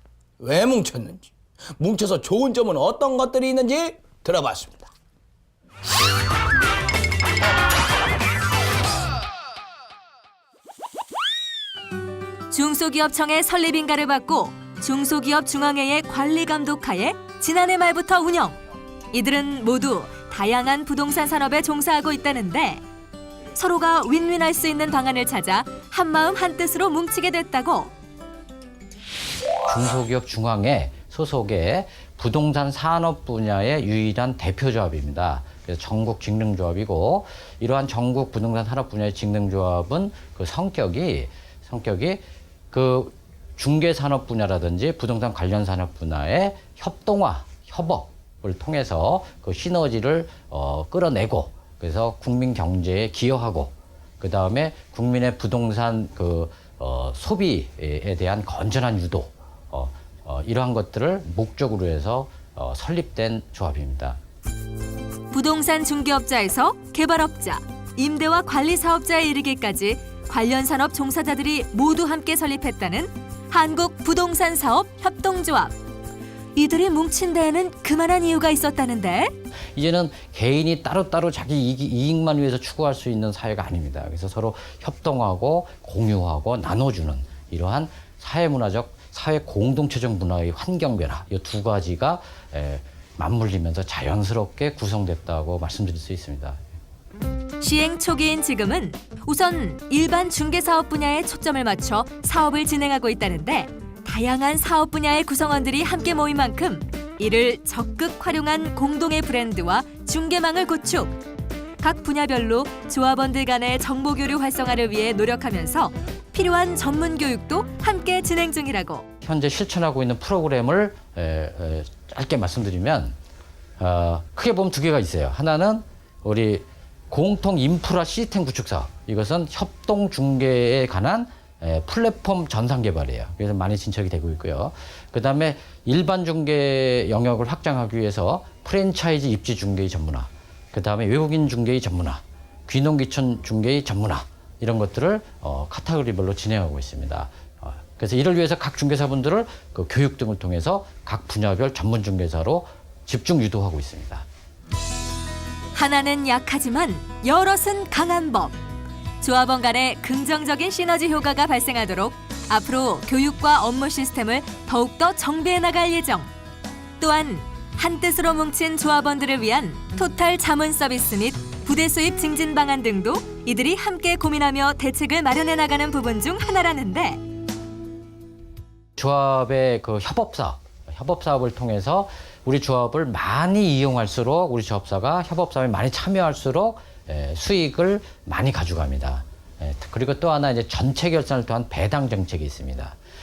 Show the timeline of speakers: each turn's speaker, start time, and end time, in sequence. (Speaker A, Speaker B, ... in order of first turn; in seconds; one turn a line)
Speaker A: 0.4-4.9
Speaker B: 12.5-18.6
Speaker B: 19.1-22.8
Speaker B: 23.6-27.9
Speaker C: 29.7-64.2
Speaker B: 65.3-75.8
Speaker B: 76.5-79.3
Speaker C: 79.8-96.6
Speaker B: 97.6-111.2
Speaker B: 111.8-119.1
Speaker C: 119.2-123.2
Speaker C: 123.8-154.3
Speaker B: 155.7-158.6
Speaker B: 159.2-166.3
Speaker B: 167.0-177.2
Speaker C: 179.0-193.0